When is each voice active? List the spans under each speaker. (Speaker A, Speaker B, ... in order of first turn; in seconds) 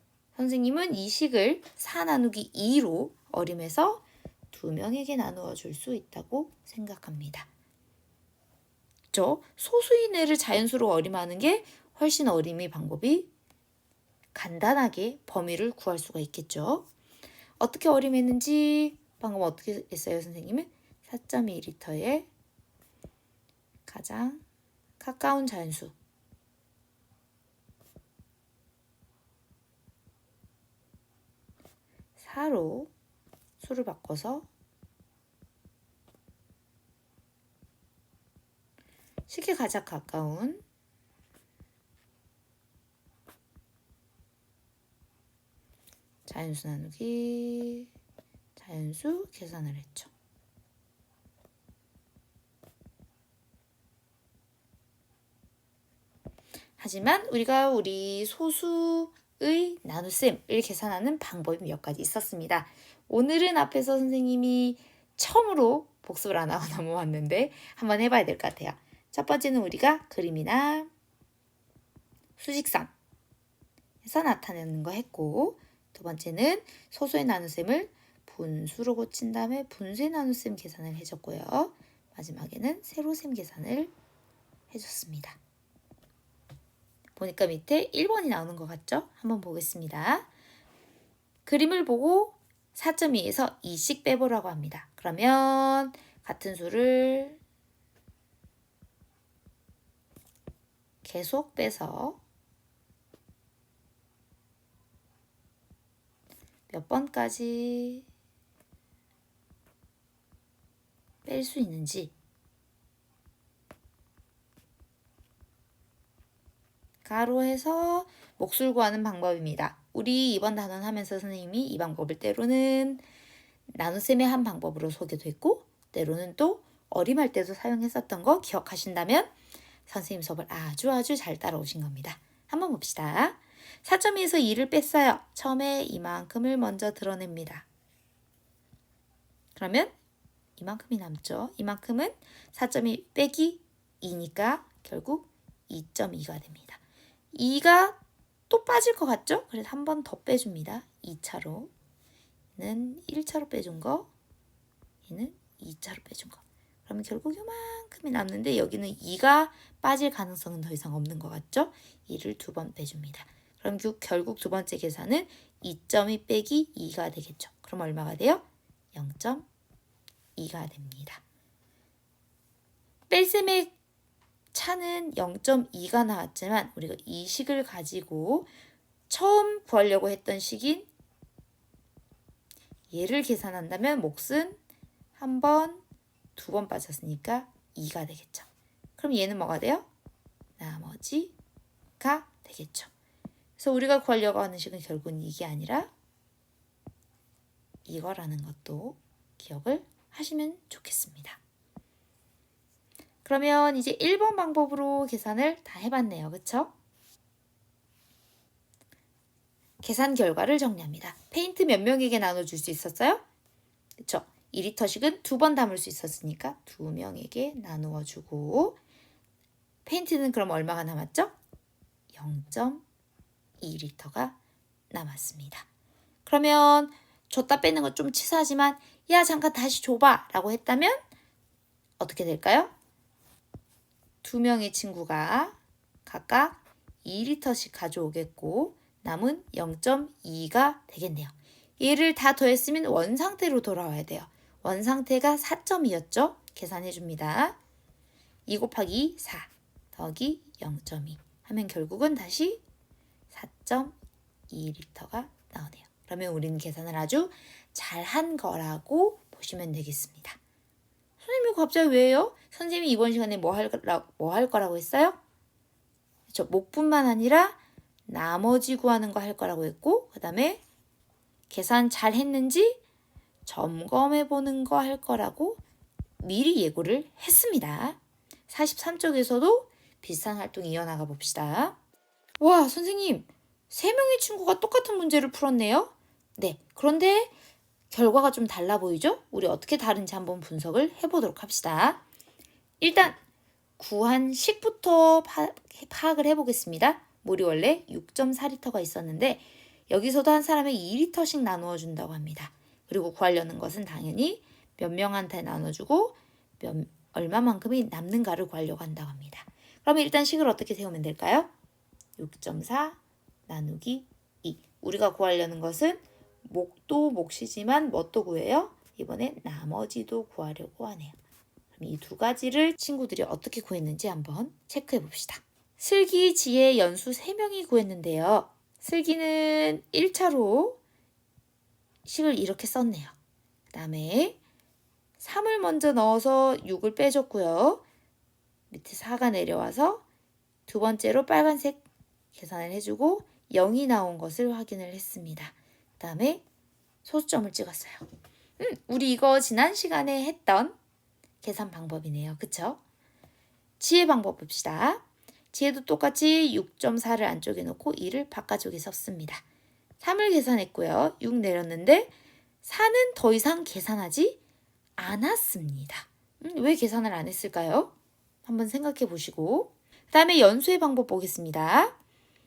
Speaker A: 0.3-7.5, 9.1-13.3, 14.3-16.9, 17.6-22.3, 23.9-24.4, 25.0-25.9, 32.2-32.9, 33.6-34.5, 39.3-40.6, 46.2-47.9, 48.5-50.1, 56.8-70.9, 72.4-72.9, 74.0-83.9, 84.7-85.4, 87.2-90.3, 91.5-97.4, 101.0-102.2, 106.7-108.0, 111.2-112.1, 117.0-123.0, 123.7-129.3, 129.9-137.7, 139.5-139.9, 140.6-146.8, 147.3-148.0, 148.5-151.7, 152.6-154.1, 155.0-169.4, 170.3-171.2, 173.1-173.8, 174.5-178.5, 179.1-180.9, 182.9-184.6, 185.1-185.8, 186.3-188.5, 189.0-189.8, 190.6-191.3, 192.0-192.9, 193.6-195.9, 197.8-201.4, 203.2-206.7, 209.8-213.2, 214.0-218.8, 219.8-221.3, 222.1-222.8, 223.6-224.4, 224.9-225.7, 226.2-231.0, 232.0-232.7, 234.2-247.6, 248.5-252.6, 253.3-253.9, 254.5-260.4, 261.2-265.2, 266.3-270.6, 271.5-272.8, 273.4-275.6, 276.2-281.8, 282.4-287.3, 287.9-292.0, 292.8-293.1, 293.8-311.5, 312.2-321.2, 321.7-330.8, 332.0-333.1, 333.7-334.4, 335.2-337.8, 338.7-340.0, 340.7-341.8, 342.3-346.4, 347.0-348.1, 348.6-350.7, 351.4-352.8, 353.8-359.4, 360.0-362.1, 362.6-364.4, 365.0-367.9, 368.4-371.9